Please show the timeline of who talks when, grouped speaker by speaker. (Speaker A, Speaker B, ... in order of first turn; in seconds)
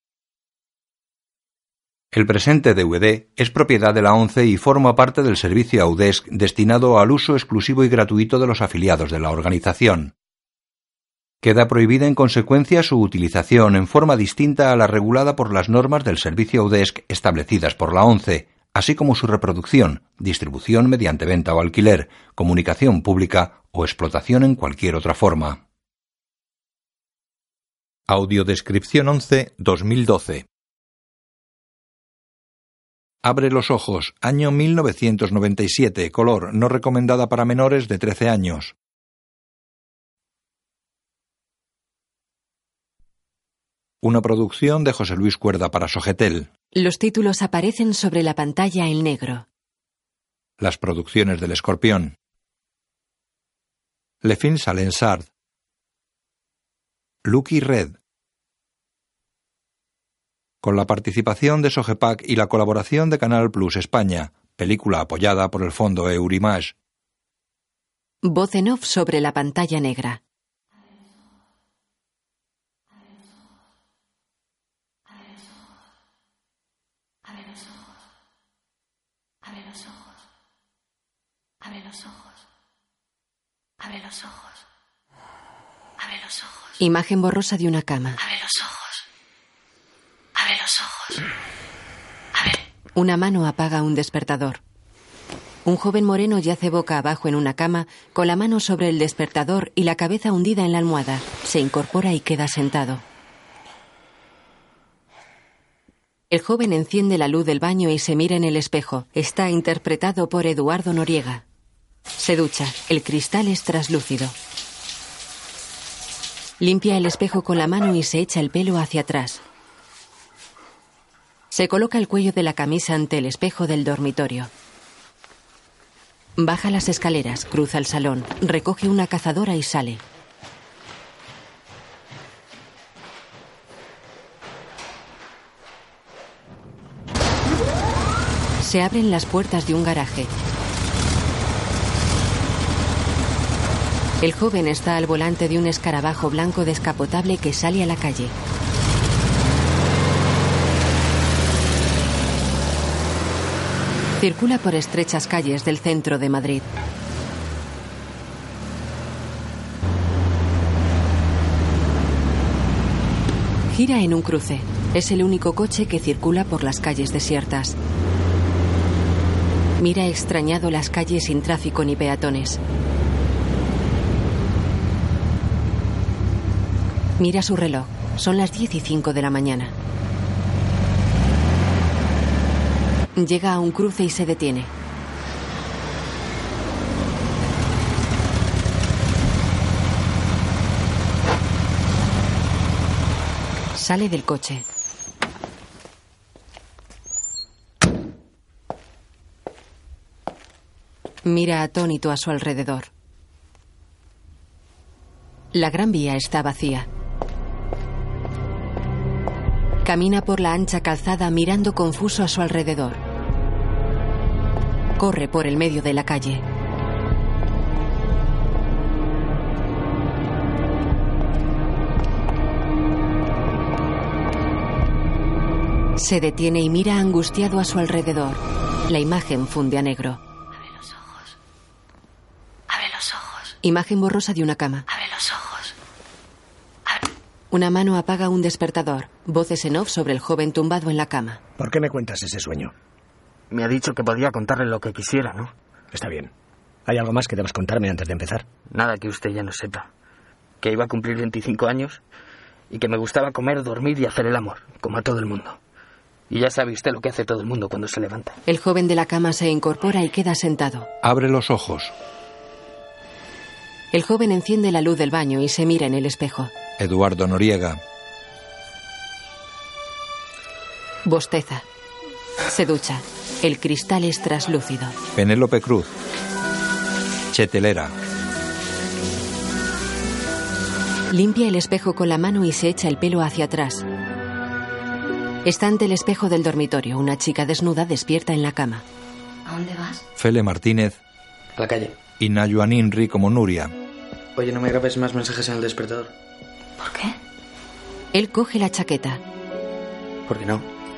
Speaker A: 2.1-10.1, 11.4-25.6, 28.1-30.4, 33.2-38.7, 44.0-46.5, 50.6-52.1, 54.2-55.3, 57.2-58.0, 60.6-66.7, 261.0-261.9, 266.8-267.8, 275.1-275.9, 277.3-277.9, 290.2-291.0, 292.2-293.7
Speaker B: 46.7-49.5, 68.2-70.2, 86.8-88.2, 92.9-94.6, 95.6-103.0, 106.3-111.4, 112.2-114.3, 116.6-119.4, 121.5-124.5, 126.4-130.0, 138.6-140.3, 144.2-148.3, 154.2-156.7, 163.7-167.8, 169.8-172.6, 177.2-179.7, 183.2-184.7, 193.8-194.7, 201.2-202.9, 205.5-206.9, 209.8-213.0, 215.0-216.4, 226.0-230.2, 233.6-234.9, 237.5-241.4, 258.4-260.9, 263.9-266.5, 271.0-271.6, 272.5-274.9, 281.1-283.9, 285.4-288.8, 298.1-299.2
Speaker C: 77.2-77.7, 79.4-79.9, 81.6-82.2, 83.8-84.4, 86.0-86.5, 88.2-89.0, 90.3-91.2, 92.3-92.6, 230.6-231.3, 232.7-233.5, 234.9-235.7, 289.5-290.0, 296.8-297.1
Speaker D: 241.6-242.7, 245.9-246.3, 246.8-248.4
Speaker E: 243.5-245.5, 248.7-249.9, 250.6-252.0, 252.7-255.6, 256.3-258.4
Speaker F: 291.6-291.9, 294.4-296.1, 300.3-300.6